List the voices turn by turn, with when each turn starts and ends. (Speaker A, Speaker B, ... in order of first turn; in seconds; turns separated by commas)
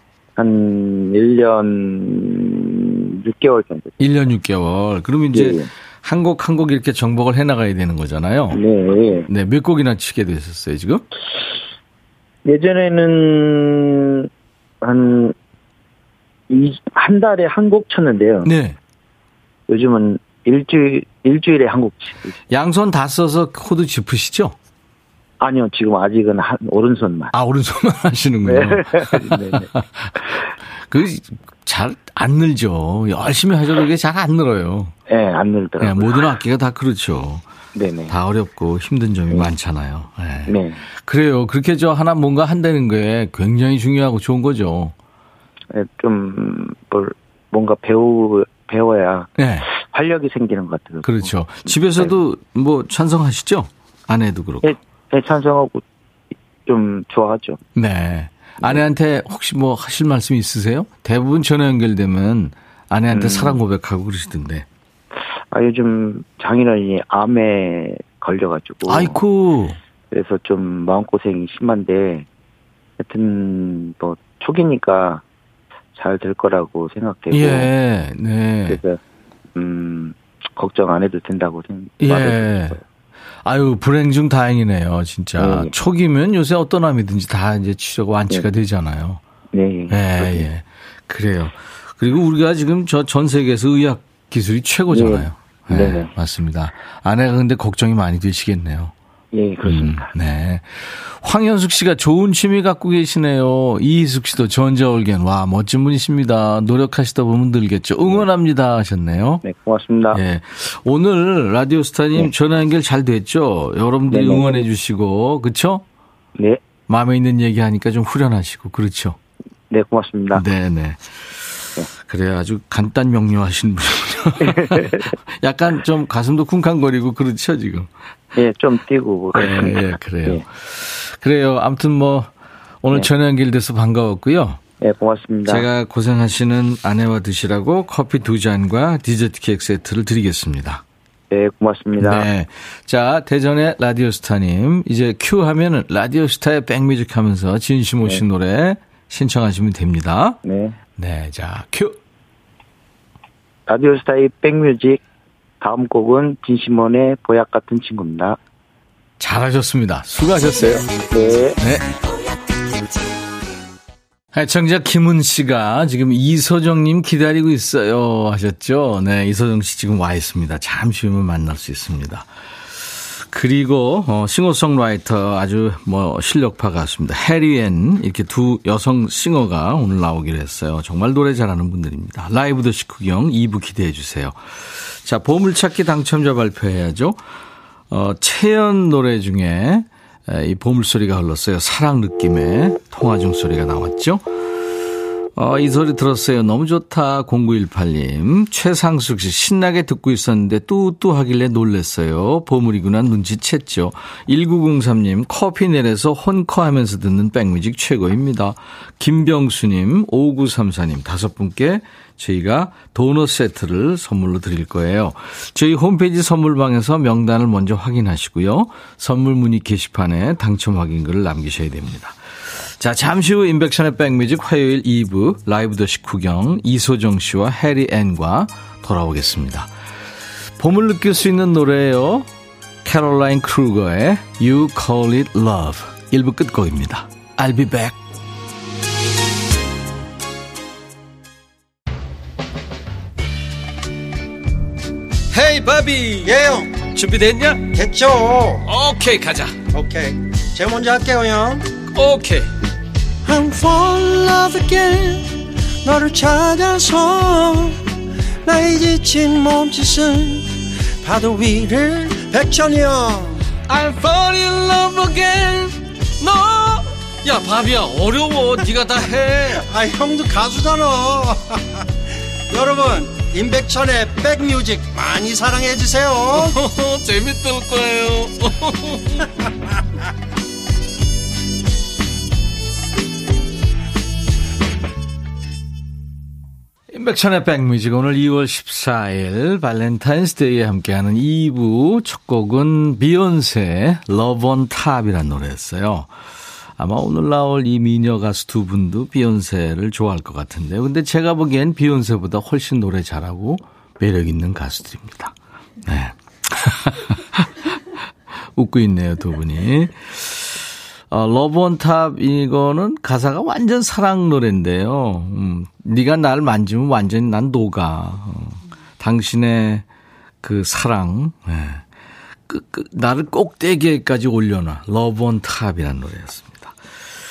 Speaker A: 0.4-3.9, Speaker B: 4.0-8.6, Speaker A: 5.3-5.7, Speaker A: 8.5-9.3, Speaker B: 9.3-11.0, Speaker A: 12.4-14.3, Speaker A: 14.8-15.3, Speaker A: 16.5-18.5, Speaker B: 18.4-18.8, Speaker A: 19.7-22.4, Speaker B: 22.5-24.6, Speaker A: 25.4-27.3, Speaker B: 27.3-30.2, Speaker A: 28.4-29.7, Speaker B: 30.9-34.9, Speaker A: 35.1-36.3, Speaker B: 35.8-37.5, Speaker A: 37.8-38.1, Speaker B: 38.1-44.9, Speaker A: 40.5-40.8, Speaker A: 45.7-52.1, Speaker B: 49.4-49.7, Speaker B: 51.0-54.7, Speaker A: 54.6-55.8, Speaker A: 56.7-57.6, Speaker B: 57.8-64.7, Speaker A: 63.1-63.6, Speaker A: 65.5-69.2, Speaker B: 68.9-69.8, Speaker A: 70.1-72.3, Speaker A: 73.0-75.2, Speaker A: 76.0-77.7, Speaker B: 77.3-78.8, Speaker A: 78.7-79.0, Speaker A: 79.5-82.8, Speaker B: 82.0-82.8, Speaker B: 83.5-89.2, Speaker A: 85.4-85.7, Speaker A: 89.5-90.5, Speaker B: 89.9-98.9, Speaker A: 94.9-96.1, Speaker A: 99.3-100.1, Speaker B: 99.6-109.4, Speaker A: 109.4-110.2, Speaker B: 110.1-115.8, Speaker A: 114.1-114.7, Speaker A: 116.4-116.6, Speaker B: 116.9-119.2, Speaker A: 119.7-120.4, Speaker B: 120.3-127.9, Speaker A: 124.4-125.1, Speaker A: 128.3-130.4, Speaker B: 129.3-132.3, Speaker B: 132.8-134.6, Speaker A: 134.8-135.7, Speaker B: 135.5-140.8, Speaker A: 141.3-142.3, Speaker B: 142.0-150.4, Speaker A: 150.4-150.8, Speaker B: 151.0-152.0, Speaker A: 153.7-155.0, Speaker A: 155.6-158.4, Speaker B: 159.2-160.9, Speaker A: 161.0-161.6, Speaker B: 161.6-161.9, Speaker B: 164.3-172.3, Speaker B: 172.9-187.2, Speaker B: 187.9-194.2, Speaker B: 195.4-222.2, Speaker B: 222.8-229.7, Speaker B: 230.6-232.3, Speaker B: 232.8-238.0, Speaker B: 245.3-246.4, Speaker C: 246.2-246.9, Speaker B: 246.9-247.7, Speaker C: 247.6-248.6, Speaker B: 248.7-249.6, Speaker C: 249.7-251.7, Speaker B: 251.9-252.5, Speaker C: 253.2-257.8, Speaker C: 258.4-263.5, Speaker B: 263.7-269.6, Speaker C: 269.6-271.6, Speaker C: 272.5-276.6, Speaker B: 276.4-279.0, Speaker B: 286.9-296.1, Speaker B: 296.8-305.4, Speaker B: 305.9-307.7, Speaker B: 308.6-319.9, Speaker B: 320.4-321.8, Speaker B: 322.5-326.8